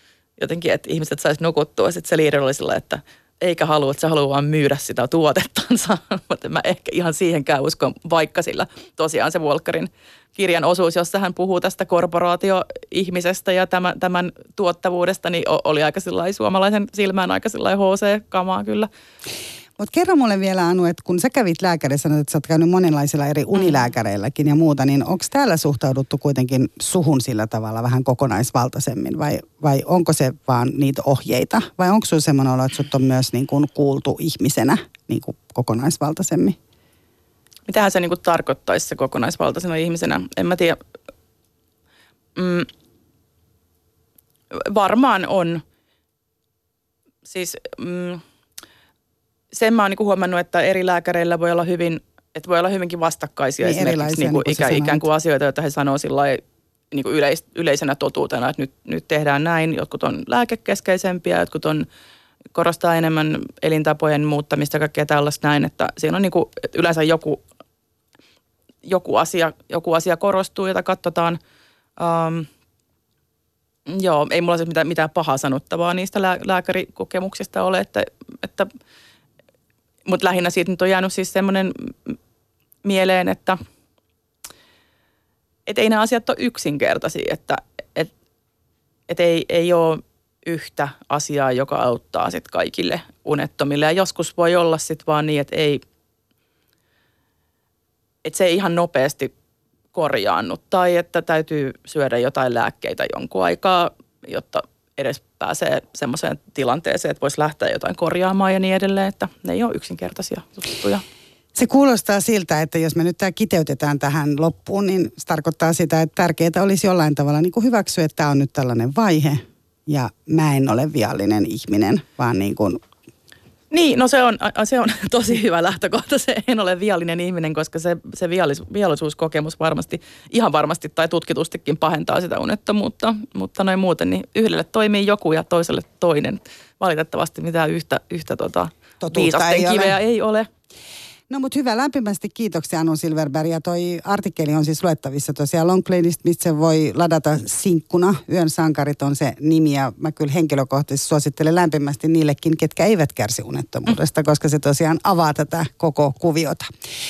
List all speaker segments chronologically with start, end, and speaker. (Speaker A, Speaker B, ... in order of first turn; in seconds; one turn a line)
Speaker A: 0.4-18.9
Speaker B: 19.8-36.6
Speaker A: 37.7-40.8
Speaker A: 42.4-42.7
Speaker A: 44.5-45.6
Speaker A: 47.2-48.2
Speaker A: 49.5-61.9
Speaker B: 53.6-55.0
Speaker A: 62.5-67.4
Speaker A: 68.8-71.4
Speaker A: 72.0-72.5
Speaker A: 73.9-78.7
Speaker A: 80.0-82.2
Speaker A: 82.8-83.6
Speaker A: 85.7-88.1
Speaker A: 89.1-95.8
Speaker A: 98.2-99.3
Speaker A: 99.9-111.0
Speaker B: 111.5-122.8
Speaker A: 123.7-140.5
Speaker B: 139.0-140.0
Speaker B: 141.3-156.7